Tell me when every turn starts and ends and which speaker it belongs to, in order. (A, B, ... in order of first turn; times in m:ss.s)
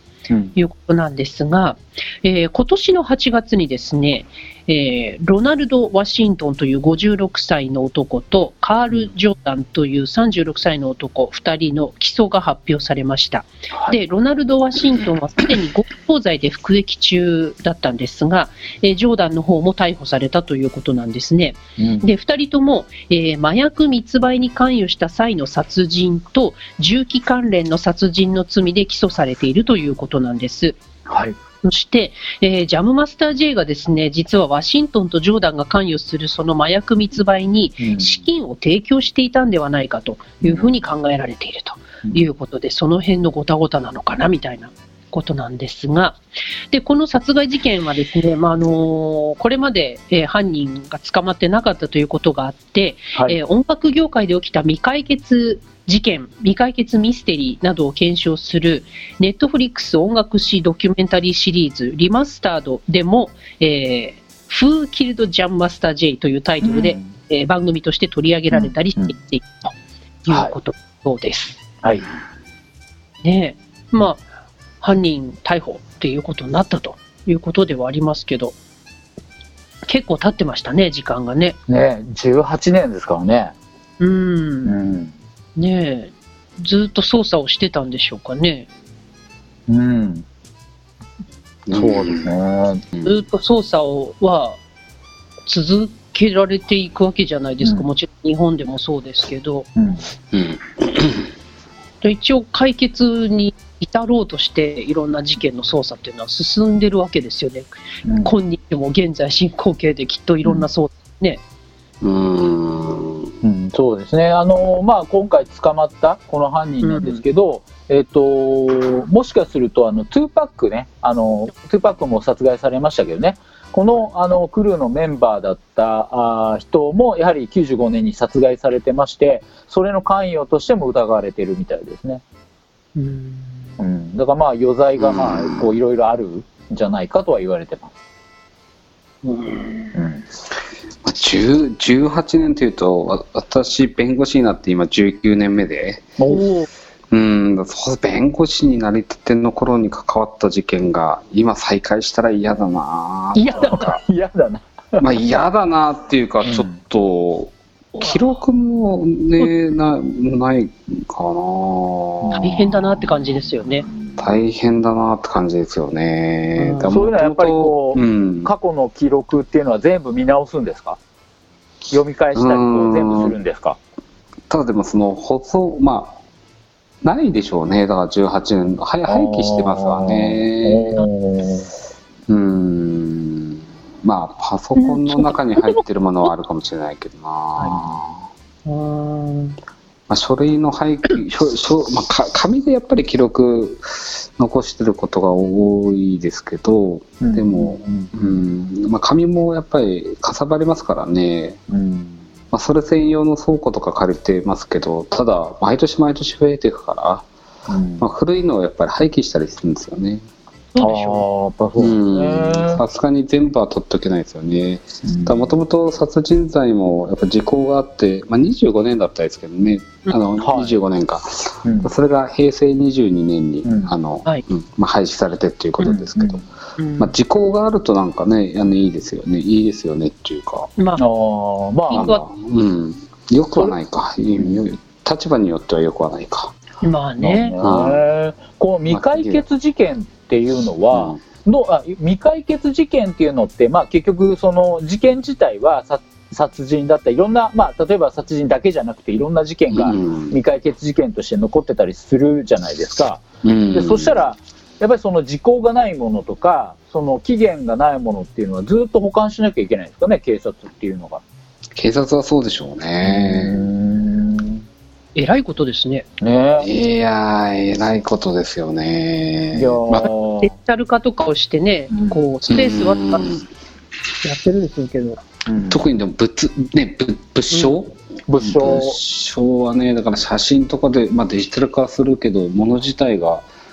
0:00.5-0:30.8 A
0:21.8-0:22.0 B
0:31.1-0:31.3 B
0:31.6-1:09.7 A
0:37.8-0:38.2 B
0:40.4-0:40.8 B
1:06.6-1:07.1 B
1:08.5-1:09.1 B
1:10.2-1:11.6 A
1:13.2-1:14.2 A
1:14.8-1:18.6 A
1:19.8-1:21.6 A
1:21.7-1:23.5 B
1:24.0-1:24.8 A
1:24.6-1:25.1 B
1:25.6-1:28.7 A
1:29.7-1:30.2 B
1:31.7-1:32.3 C
1:31.7-1:32.8 B
1:33.0-1:34.6 A
1:35.4-1:39.7 A
1:39.8-1:40.0 B
1:40.3-1:41.2 C
1:42.0-1:51.4 A
1:48.0-1:48.3 B
1:52.0-1:53.3 C
1:53.4-2:12.2 B
1:56.8-1:57.2 A
2:13.0-2:13.7 A
2:13.8-2:17.9 B
2:15.0-2:15.7 C
2:19.2-2:20.0 A
2:19.9-2:20.2 B
2:21.0-2:26.1 C
2:26.2-2:26.5 B
2:26.3-2:26.7 A
2:27.1-2:34.0 C
2:33.3-2:33.9 A
2:33.5-2:35.0 B
2:35.0-2:48.5 C
2:36.4-2:36.8 B
2:38.0-2:38.4 A
2:42.2-2:42.6 B
2:42.4-2:43.9 A
2:43.9-2:44.3 B
2:46.6-2:46.9 A
2:46.8-2:51.0 B
2:51.9-2:53.8 B
2:52.3-2:53.4 C
2:54.5-2:56.2 C
2:57.0-3:01.0 C
2:59.0-3:01.7 B
3:02.3-3:08.3 C
3:04.8-3:05.8 A
3:08.6-3:09.6 A
3:10.1-3:21.6 C
3:17.2-3:18.1 B
3:21.7-3:22.2 B
3:22.5-3:27.2 C
3:27.7-3:28.1 B
3:28.0-3:30.2 C
3:30.7-3:31.2 A
3:30.8-3:32.8 B
3:31.8-3:50.7 C
3:35.0-3:35.5 B
3:40.4-3:40.8 B
3:41.6-3:41.9 B
3:43.6-3:43.9 B
3:45.8-3:46.4 B
3:46.8-3:47.1 A
3:50.8-3:51.0 A
3:51.0-3:52.1 B
3:51.9-3:52.2 A
3:51.9-3:56.5 C
3:56.8-3:57.6 A
3:57.2-4:21.2 B
3:57.6-3:58.0 C
3:58.9-3:59.4 C
4:00.9-4:01.2 C
4:09.7-4:10.4 C
4:13.4-4:14.2 C
4:21.8-4:23.7 C
4:23.0-4:24.6 B
4:25.1-4:26.1 A
4:26.2-4:26.7 B
4:26.6-4:30.1 C
4:29.5-4:30.5 B
4:30.4-4:33.3 A
4:31.9-4:32.2 B
4:32.5-4:33.4 C
4:34.2-4:35.2 A
4:35.4-4:35.9 B
4:35.6-4:43.4 C
4:38.3-4:39.0 B